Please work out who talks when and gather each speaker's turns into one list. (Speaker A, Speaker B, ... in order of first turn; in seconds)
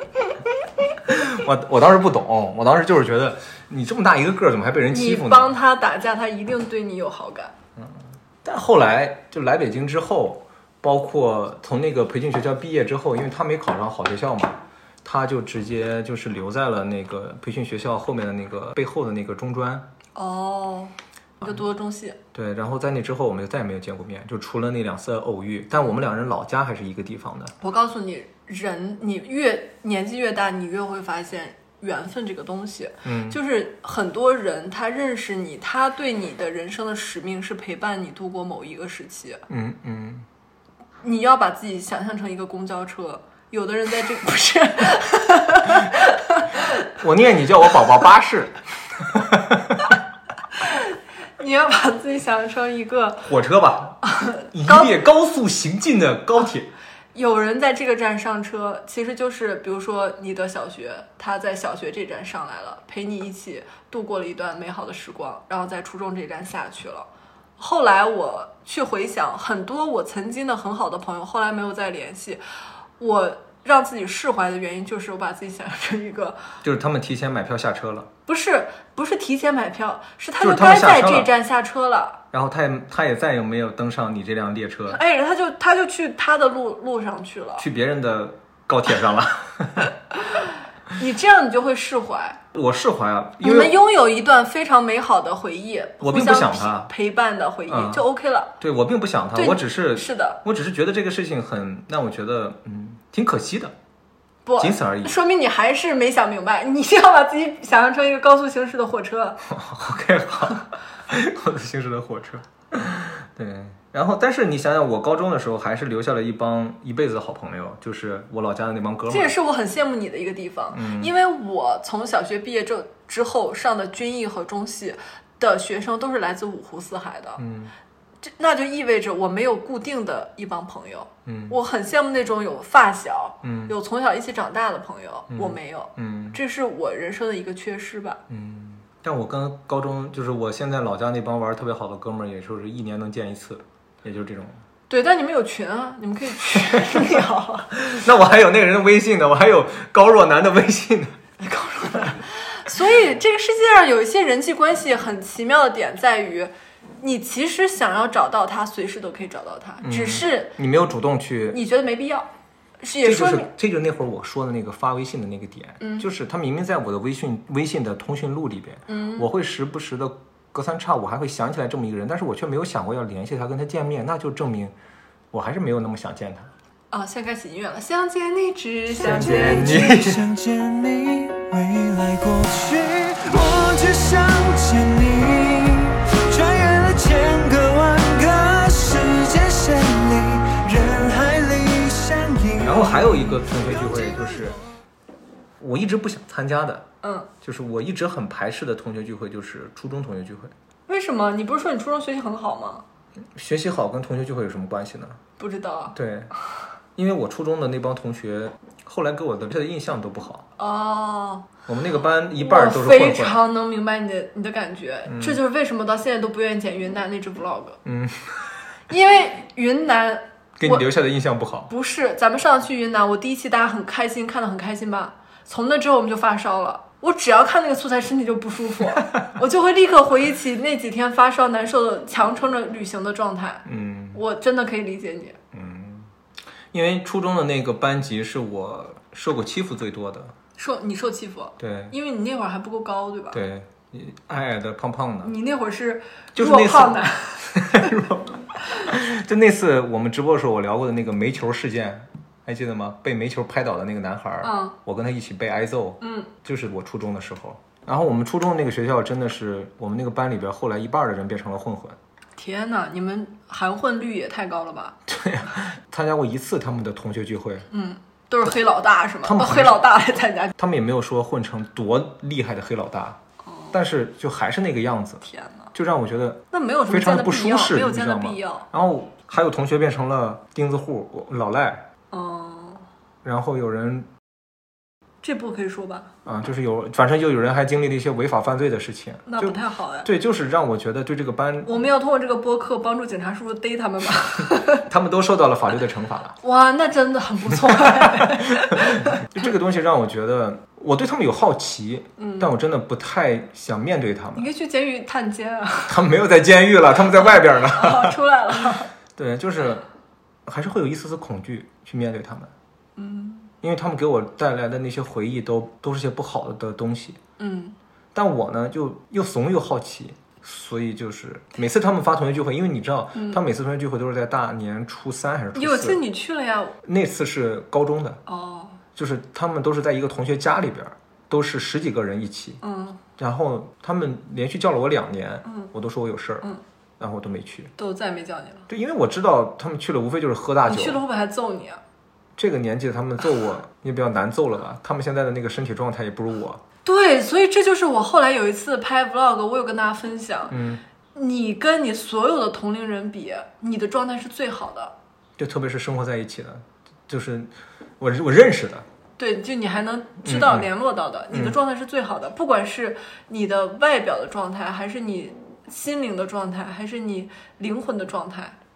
Speaker A: 1.0-5.5, 7.8-19.9, 22.3-27.5, 33.0-33.4, 39.5-40.3, 46.9-50.0, 53.2-56.7, 76.6-78.1, 80.4-81.3, 82.3-85.0, 87.6-89.9, 92.5-93.8, 96.0-96.9, 97.7-98.0, 98.6-103.7, 104.6-105.2, 109.4-119.3, 120.7-121.1, 127.4-127.7, 131.2-131.6, 133.4-133.7, 135.3-136.4, 138.3-144.6, 147.7-151.2, 159.8-161.6, 163.0-174.7, 175.3-176.5, 179.0-180.2, 192.6-194.6, 195.6-196.9, 197.4-200.5, 203.3-205.2, 205.9-206.3, 206.9-210.4, 211.7-213.4, 215.1-215.4, 217.8-218.6, 220.6-221.7, 233.7-234.2, 235.5-236.1, 236.7-240.3, 241.6-241.9, 243.3-245.3, 246.3-262.0, 265.1-267.7, 269.2-269.9, 270.6-273.2, 273.7-281.9, 283.2-284.1, 286.2-291.7, 294.8-296.4, 297.6-304.5, 305.9-309.8, 310.4-312.5, 313.6-317.2, 318.1-326.0, 326.8-328.2, 328.9-332.6, 333.2-336.5, 337.0-337.7, 338.7-341.0, 342.4-346.6, 350.5-350.8, 355.4-358.8, 360.2-360.7, 361.3-361.6
Speaker B: 4.9-7.5, 20.1-22.2, 27.6-39.4, 41.0-46.8, 50.6-53.3, 54.0-54.9, 57.1-72.4, 73.0-76.4, 78.3-82.2, 84.9-87.7, 91.0-92.4, 93.4-98.5, 99.3-100.4, 104.5-109.4, 119.1-127.4, 128.2-138.2, 144.9-147.8, 151.4-160.5, 161.5-162.3, 162.8-163.5, 165.8-166.1, 168.9-169.3, 176.9-179.9, 197.0-197.3, 200.9-202.8, 205.4-205.9, 210.6-211.5, 212.3-217.8, 218.9-220.9, 221.7-235.4, 240.6-243.4, 245.2-248.0, 254.4-254.8, 256.0-256.3, 262.4-265.0, 267.7-270.5, 273.4-273.7, 275.2-275.7, 276.5-278.7, 282.1-282.9, 285.2-286.1, 289.2-290.1, 291.6-294.8, 296.4-299.2, 302.2-302.5, 304.3-306.0, 307.1-308.9, 312.9-313.5, 317.4-317.8, 323.1-323.4, 325.5-326.8, 328.3-328.8, 332.6-333.0, 335.4-335.7, 337.8-338.7, 340.6-341.8, 346.8-350.6, 351.1-354.9, 359.2-368.6
Speaker C: 178.9-194.7